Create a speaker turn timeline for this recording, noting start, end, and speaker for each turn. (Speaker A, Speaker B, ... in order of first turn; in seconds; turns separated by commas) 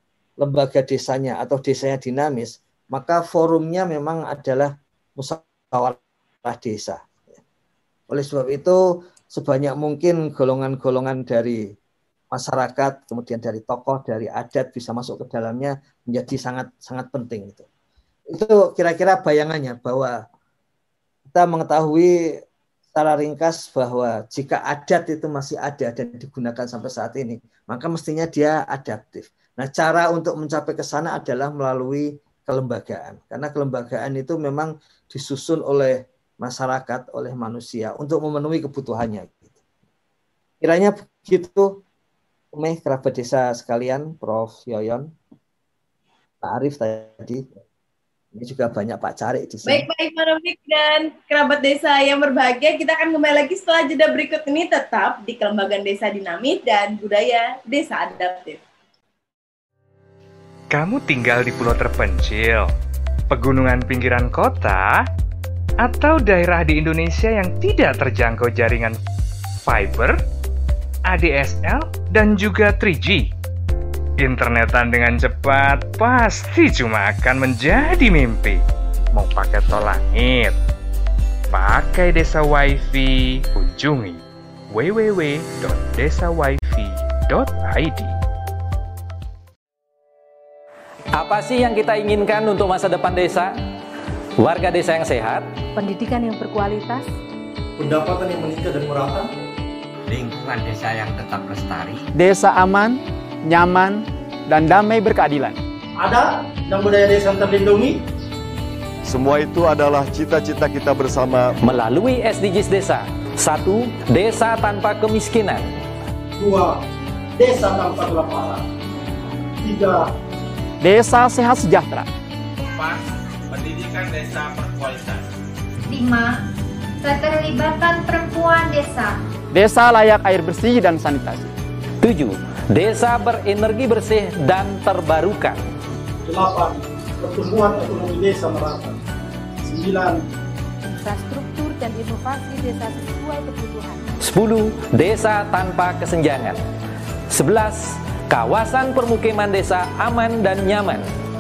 Speaker A: 0.4-7.4, Speaker A: 8.1-8.8, Speaker A: 9.3-11.6, Speaker A: 12.3-17.7, Speaker A: 18.3-20.2, Speaker A: 21.3-22.1, Speaker A: 22.9-39.6, Speaker A: 40.6-41.8, Speaker A: 42.5-45.1, Speaker A: 46.4-47.5, Speaker A: 48.4-49.9, Speaker B: 49.7-58.6, Speaker C: 60.7-62.7, Speaker C: 63.3-65.0, Speaker C: 65.8-69.0, Speaker C: 69.7-70.2, Speaker C: 71.1-73.3, Speaker C: 74.2-78.6, Speaker C: 79.1-80.6, Speaker C: 81.5-88.2, Speaker D: 91.2-93.5, Speaker D: 94.4-95.5, Speaker E: 95.8-97.1, Speaker F: 97.8-99.3, Speaker G: 100.1-102.0, Speaker H: 102.2-105.6, Speaker F: 106.0-108.0, Speaker I: 109.1-111.5, Speaker D: 111.6-115.6, Speaker F: 116.4-116.8, Speaker F: 117.4-118.7, Speaker F: 119.6-120.1, Speaker H: 120.8-122.1, Speaker J: 122.6-125.3, Speaker K: 125.9-126.4, Speaker K: 127.0-129.2, Speaker H: 129.5-131.5, Speaker D: 132.0-135.6, Speaker F: 136.3-139.0, Speaker F: 139.7-140.2, Speaker E: 140.8-144.0, Speaker D: 144.2-146.6, Speaker D: 147.3-151.1